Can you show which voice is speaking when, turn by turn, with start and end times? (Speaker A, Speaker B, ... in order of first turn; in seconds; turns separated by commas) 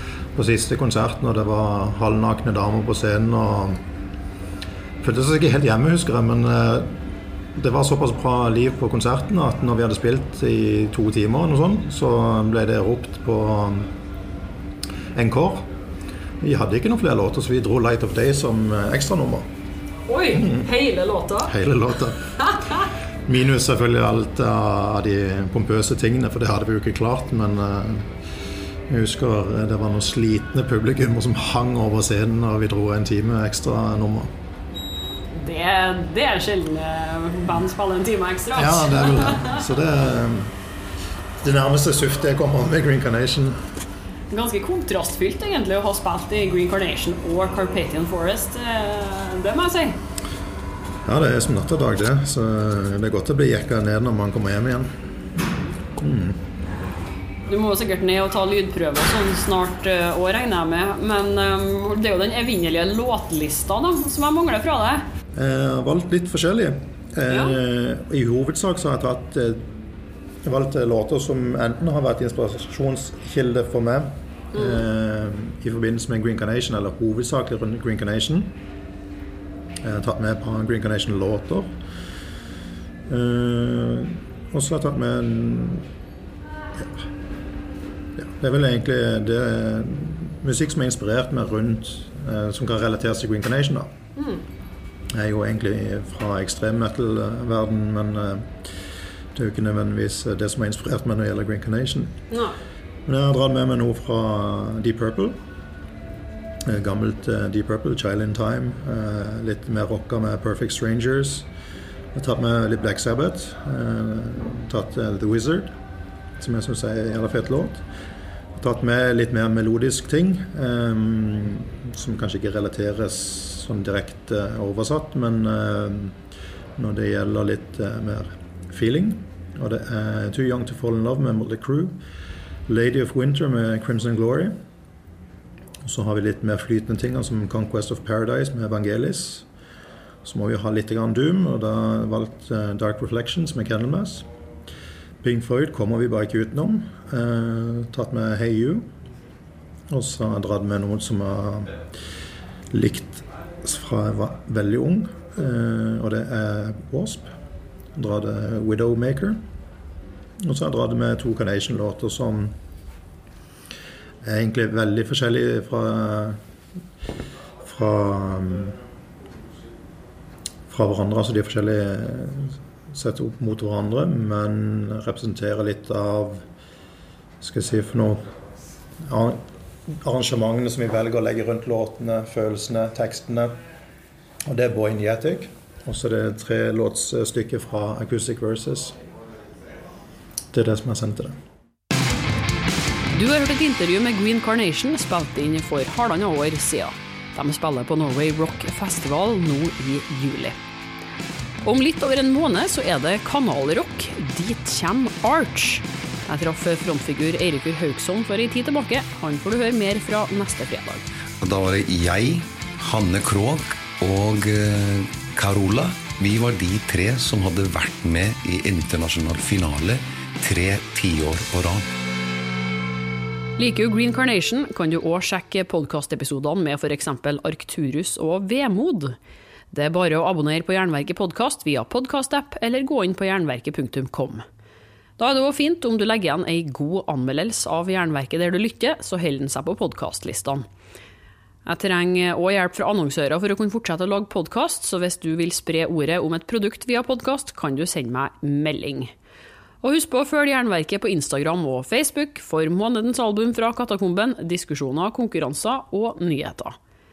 Speaker A: 0.3-3.8, Speaker A: 5.0-7.0, Speaker A: 7.5-13.9, Speaker A: 15.2-15.7, Speaker A: 16.4-19.5, Speaker B: 20.1-21.5, Speaker A: 20.4-20.7, Speaker A: 21.4-22.3, Speaker B: 22.4-22.7, Speaker A: 23.3-28.1, Speaker A: 28.9-34.3, Speaker B: 35.3-39.6, Speaker A: 38.5-40.5, Speaker A: 41.4-43.6, Speaker B: 44.3-50.0, Speaker A: 51.1-54.9, Speaker A: 56.0-56.4, Speaker B: 57.5-65.0, Speaker A: 65.3-69.7, Speaker B: 67.3-67.6, Speaker A: 70.4-78.6, Speaker B: 74.5-74.8, Speaker A: 79.8-81.8, Speaker A: 83.1-85.9, Speaker A: 88.2-93.9, Speaker B: 94.2-94.4, Speaker A: 95.1-98.8, Speaker A: 99.3-102.2, Speaker B: 102.3-102.6, Speaker A: 103.1-105.4, Speaker A: 106.7-111.5, Speaker A: 112.2-115.7, Speaker A: 116.4-117.8, Speaker A: 118.6-126.2, Speaker A: 126.8-132.0, Speaker A: 132.7-134.5, Speaker A: 135.8-139.5, Speaker A: 140.2-144.3, Speaker A: 145.2-148.9, Speaker A: 149.9-151.8, Speaker A: 152.7-157.3, Speaker A: 157.9-159.4, Speaker A: 160.4-162.5, Speaker A: 164.2-166.4, Speaker A: 167.6-168.8, Speaker A: 170.7-176.4, Speaker A: 177.4-178.2, Speaker A: 179.0-179.4, Speaker A: 180.0-183.5, Speaker A: 184.5-189.0, Speaker A: 190.5-191.4, Speaker B: 193.1-200.6, Speaker B: 201.6-211.1, Speaker C: 211.4-221.9, Speaker B: 223.6-229.2, Speaker B: 229.7-234.4, Speaker B: 235.2-240.7, Speaker B: 241.7-249.1, Speaker B: 249.8-256.8